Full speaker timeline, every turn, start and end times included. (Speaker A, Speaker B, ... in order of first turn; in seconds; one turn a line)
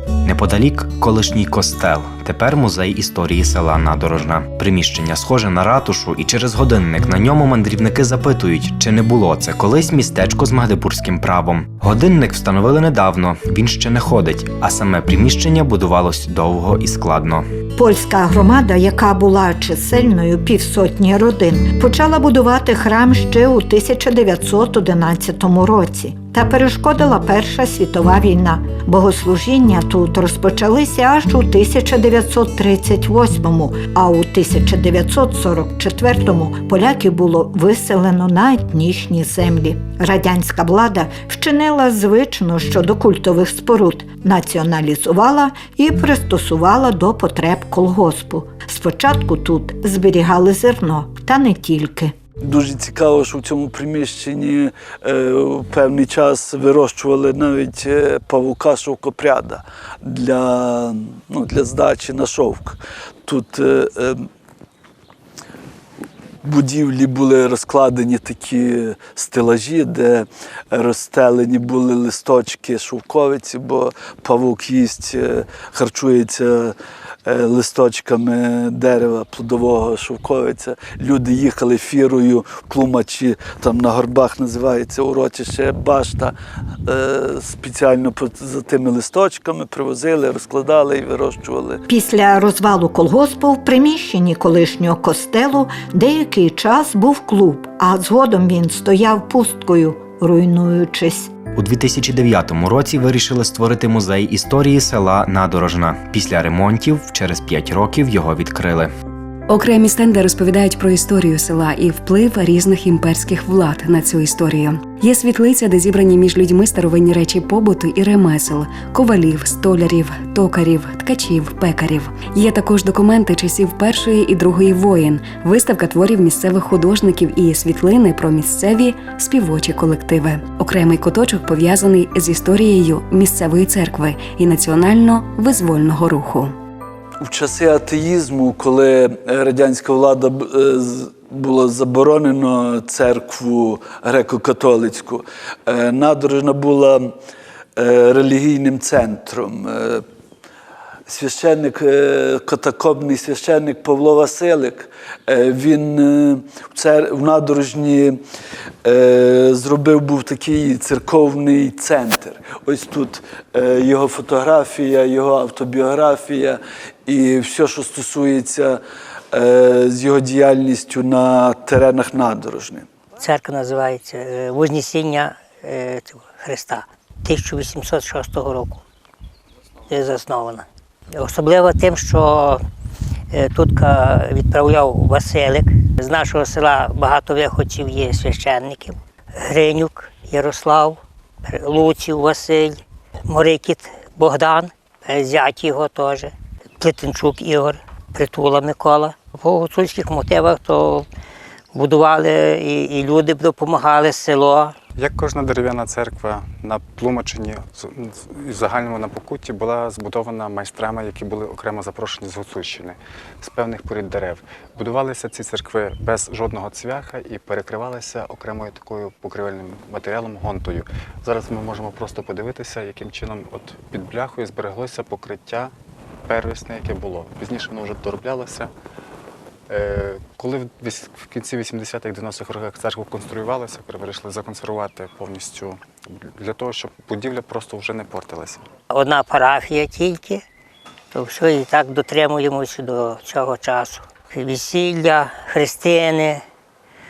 Speaker A: 0.2-17.5
Speaker B: 17.8-52.1
Speaker C: 52.4-64.3
Speaker C: 66.4-91.8
Speaker B: 91.9-101.3
Speaker A: 101.5-108.9
Speaker D: 109.5-136.5
Speaker C: 137.2-147.2
Speaker C: 147.8-150.1
Speaker C: 151.1-158.2
Speaker C: 158.8-168.8
Speaker C: 169.3-172.9
Speaker E: 173.2-178.8
Speaker E: 179.9-182.6
Speaker E: 183.3-201.1
Speaker E: 201.7-204.8
Speaker F: 205.0-225.7
Speaker F: 226.3-228.7
Speaker F: 229.7-235.8
Speaker F: 236.4-238.6
Speaker E: 238.9-240.4
Speaker E: 241.1-246.4